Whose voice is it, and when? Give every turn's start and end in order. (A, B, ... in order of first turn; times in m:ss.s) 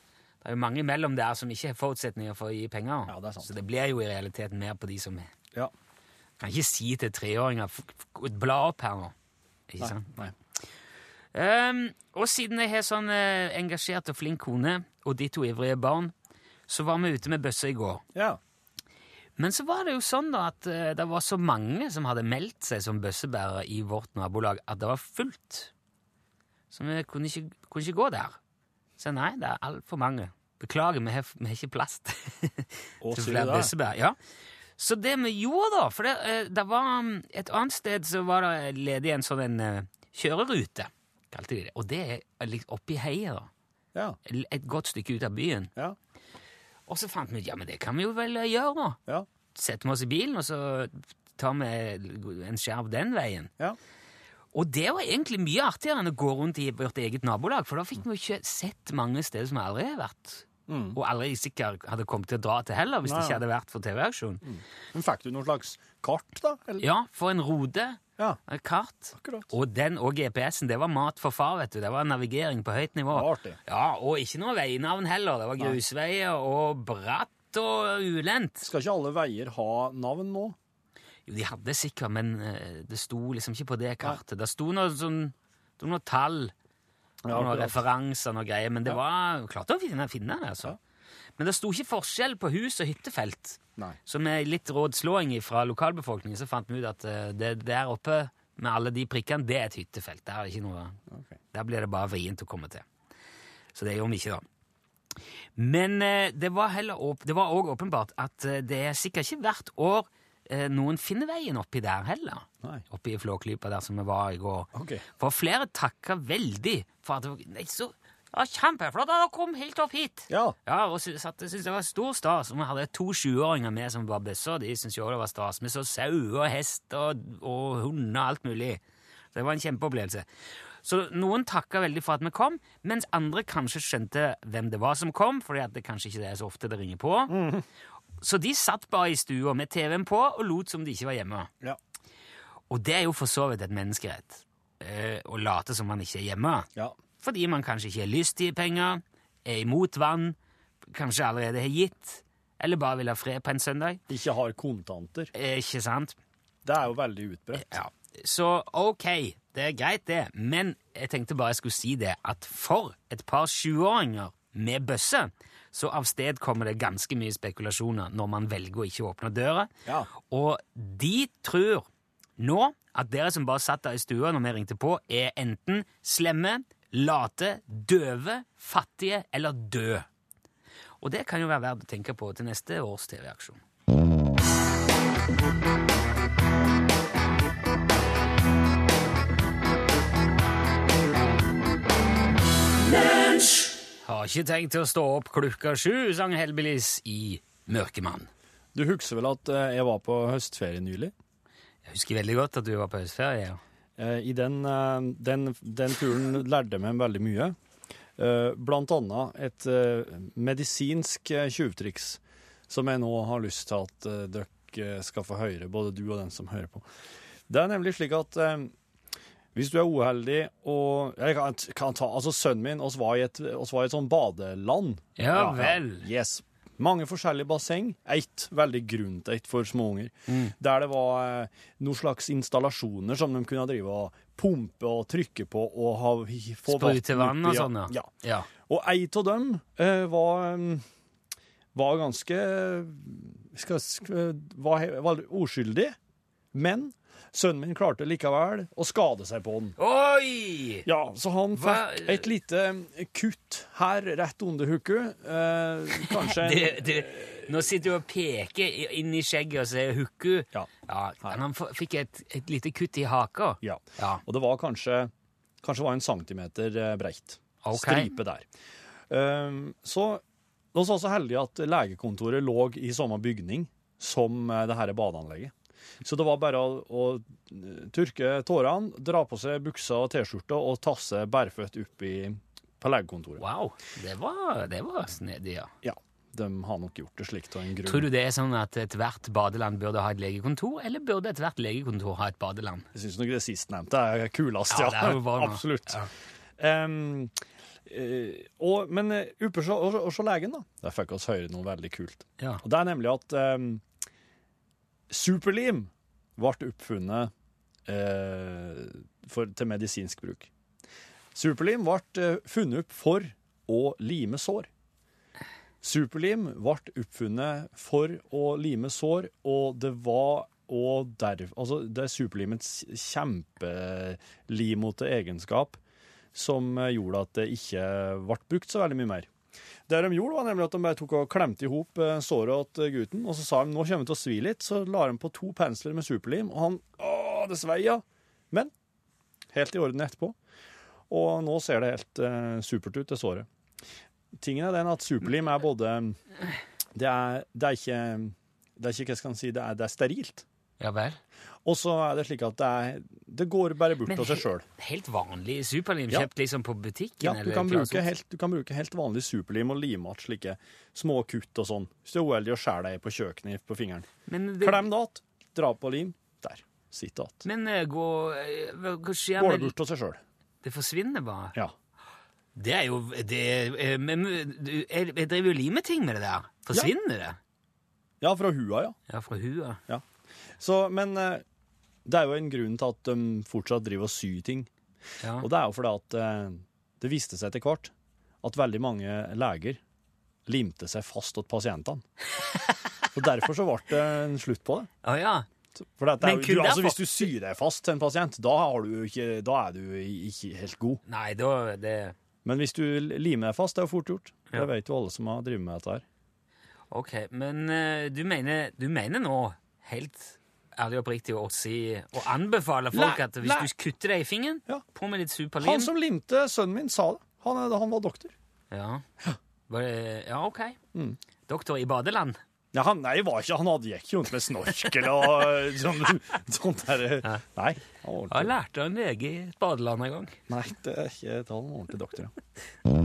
0:00.4-0:05.3 A
0:03.1-0:03.5 B
0:06.4-0:09.1 A
0:09.7-0:10.1 A
0:09.8-0:10.3 B
0:11.3-0:16.1 A
0:16.7-0:18.0 A
0:18.1-0:18.4 B
0:19.4-0:25.7 A
0:26.7-0:28.4 A
0:29.0-0:34.2 A
0:33.0-0:33.7 B
0:34.8-0:43.5 A
0:44.2-0:45.7 A
0:46.9-0:49.0 A
0:49.5-0:53.5 A
0:54.5-1:04.4 A
1:00.7-1:01.0 B
1:03.0-1:03.4 B
1:04.4-1:06.8 B
1:06.8-1:18.7 A
1:09.1-1:09.5 B
1:13.1-1:13.6 B
1:18.6-1:20.6 B
1:21.3-1:26.5 A
1:27.2-1:27.8 B
1:27.3-1:30.8 A
1:31.4-1:41.0 A
1:41.1-1:41.3 B
1:41.5-1:42.8 A
1:43.7-1:44.4 A
1:45.6-2:08.8 A
1:54.7-1:55.0 B
2:00.3-2:00.6 B
2:09.3-2:10.2 A
2:10.8-2:17.4 A
2:17.3-2:17.6 B
2:18.2-2:21.5 A
2:22.7-2:30.4 A
2:30.9-2:34.0 A
2:34.1-2:35.3 B
2:35.3-2:36.2 A
2:36.6-2:37.8 B
2:37.5-2:51.8 A
2:52.4-3:00.1 A
3:01.0-3:03.6 A
3:14.0-3:18.3 A
3:18.7-3:21.1 B
3:21.8-3:23.6 A
3:24.0-3:27.6 B
3:28.2-3:36.9 B
3:37.5-3:38.7 B
3:39.5-4:00.8 B
3:45.2-3:46.1 A
3:50.3-3:50.5 A
3:56.7-3:58.5 A
4:01.7-4:06.0 B
4:06.5-4:09.7 B
4:09.8-4:10.8 A
4:10.8-4:17.7 B
4:11.5-4:12.3 A
4:16.0-4:24.2 A
4:23.6-4:25.1 B
4:25.6-4:28.4 B
4:27.6-4:28.2 A
4:29.1-4:30.2 B
4:30.7-4:43.4 B
4:43.4-4:45.7 A
4:45.8-4:48.1 B
4:47.8-4:52.9 A
4:52.9-4:56.0 B
4:54.7-4:56.1 A
4:56.6-5:03.8 B
5:05.1-5:07.3 B
5:07.9-5:10.5 B
5:11.3-5:14.7 B
5:15.8-5:25.8 B
5:26.3-5:29.3 B
5:29.9-5:38.7 B
5:39.5-5:40.4 B
5:41.1-5:43.5 B
5:44.3-5:46.2 B
5:46.9-5:50.4 B
5:50.8-5:51.2 A
5:51.6-5:54.6 B
5:54.1-5:58.1 A
5:57.2-6:04.1 B
6:04.3-6:04.9 A
6:04.6-6:07.5 B
6:07.4-6:09.7 A
6:09.4-6:10.2 B
6:10.6-6:11.5 A
6:12.5-6:17.4 A
6:18.2-6:19.0 B
6:19.1-6:19.8 A
6:20.6-6:21.4 B
6:22.0-6:24.7 B
6:25.2-6:25.5 A
6:25.4-6:29.8 B
6:30.4-6:32.0 B
6:32.4-6:32.8 A
6:33.1-6:34.9 B
6:35.0-6:35.5 A
6:35.8-6:41.0 B
6:36.2-6:37.2 A
6:41.1-6:42.1 A
6:42.4-6:46.0 B
6:46.9-6:55.9 A
6:52.9-6:53.7 B
6:55.6-6:58.3 B
6:58.7-6:59.0 A
6:59.7-7:00.8 A
7:01.5-7:02.4 A
7:02.7-7:08.5 B
7:08.3-7:10.4 A
7:10.5-7:12.3 B